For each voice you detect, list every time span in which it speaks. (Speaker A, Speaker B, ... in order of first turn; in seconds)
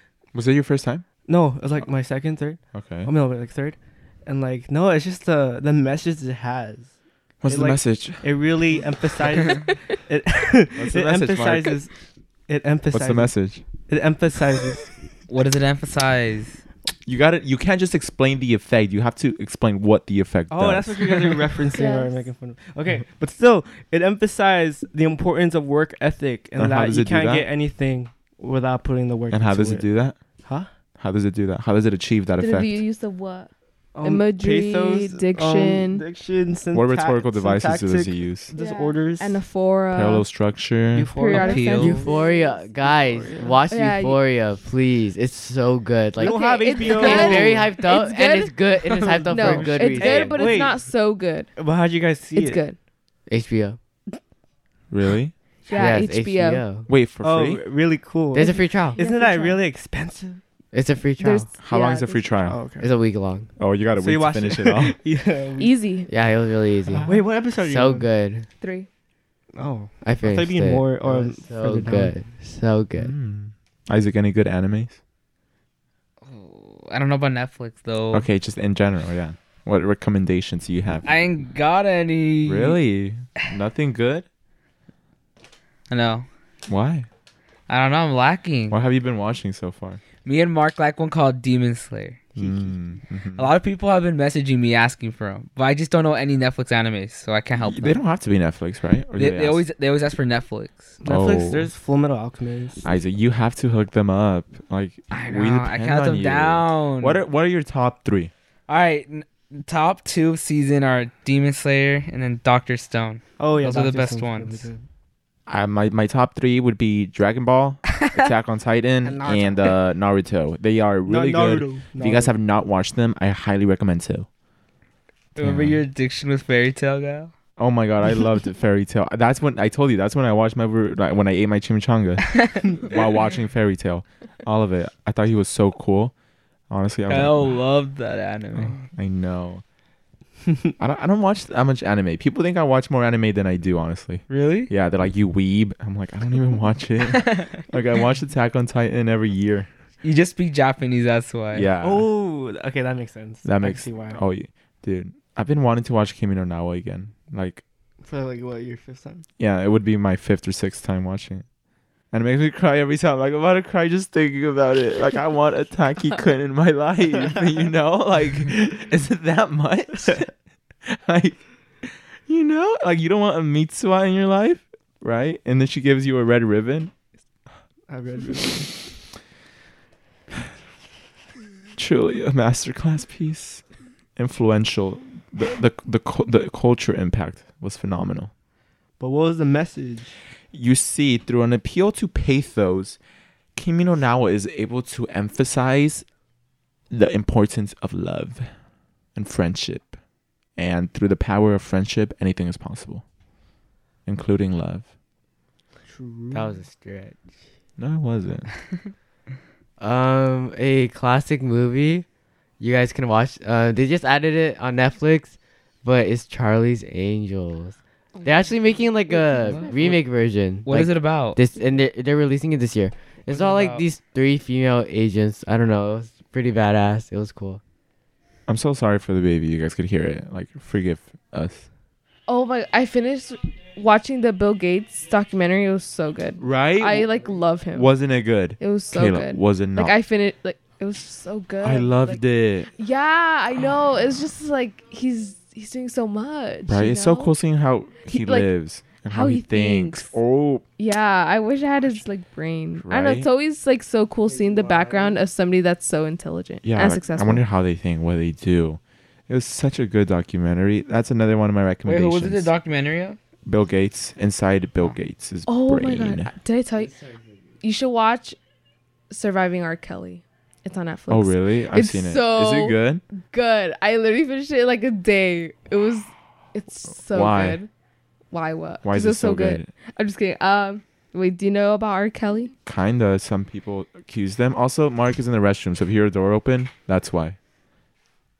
Speaker A: 0.3-1.1, 2.7-3.1, 7.4-8.3, 10.8-11.8, 12.9-13.7, 17.1-21.4, 26.6-27.5, 29.3-30.2, 31.0-32.9, 36.7-38.5, 39.9-41.2, 54.9-55.4, 56.9-57.6, 61.6-62.6, 63.6-65.0, 66.9-67.3, 73.0-75.0, 78.1-81.1, 82.5-84.3, 86.7-87.1, 88.7-90.0, 92.4-93.5, 97.6-99.6, 101.0-101.7, 102.8-108.3, 115.5-124.3, 125.4-125.8, 127.6-136.1, 136.7-137.6, 138.5-139.6, 140.8-149.7, 151.5-152.1, 153.4-157.6, 159.4-161.5, 162.1-170.3, 170.9-176.9, 181.8-183.6, 184.2-188.3, 190.5-193.0, 193.6-196.1, 196.9-198.5, 199.2-200.0, 200.6-203.1, 204.1-204.9, 207.8-208.5, 228.5-231.7, 236.4-237.1, 237.7-239.9, 241.6-242.7, 246.7-250.7, 252.8-253.3, 256.6-262.5, 263.5-266.3, 271.1-273.0, 277.1-277.6, 278.8-279.7, 282.6-287.4
Speaker B: 1.2-6.9, 7.5-11.9, 12.5-14.9, 20.5-29.9, 30.4-30.7, 34.0-39.5, 40.9-42.1, 42.8-43.6, 46.2-47.8, 48.9-50.9, 51.5-52.6, 57.2-60.4, 62.4-62.9, 64.0-65.7, 67.0-68.1, 69.5-72.2, 101.0-102.9, 113.4-114.8, 119.0-119.6, 121.1-122.3, 151.8-154.2, 158.0-159.2, 177.9-178.9, 189.0-190.2, 205.9-206.6
Speaker C: 15.3-16.6, 41.3-42.0, 76.2-78.3, 81.0-82.8, 85.9-86.3, 87.7-88.8, 90.2-92.2, 93.4-98.0, 99.2-100.9, 105.1-107.2, 108.7-114.7, 125.4-127.3, 137.1-138.9, 144.3-144.7, 147.2-147.5, 150.0-151.7, 220.7-221.4, 223.3-223.8, 261.9-263.2
Speaker D: 21.7-22.3, 32.4-33.5, 34.0-36.1, 38.5-40.3, 41.1-42.7, 43.7-44.2, 46.2-51.5, 52.3-52.8, 55.7-56.6, 58.4-59.6, 61.2-62.4, 65.6-66.1, 68.6-68.9, 218.2-219.7, 232.3-237.9, 238.6-242.2, 242.7-247.3, 248.1-248.5, 249.1-250.2, 250.8-257.4, 265.5-267.0, 267.6-268.4, 269.1-277.7, 278.3-282.5
Speaker E: 41.8-50.5, 53.3-53.8, 55.7-56.9, 58.3-59.0, 60.7-61.5, 62.8-63.5, 66.1-68.5, 70.0-73.1, 206.3-207.2, 209.8-212.1, 212.6-227.6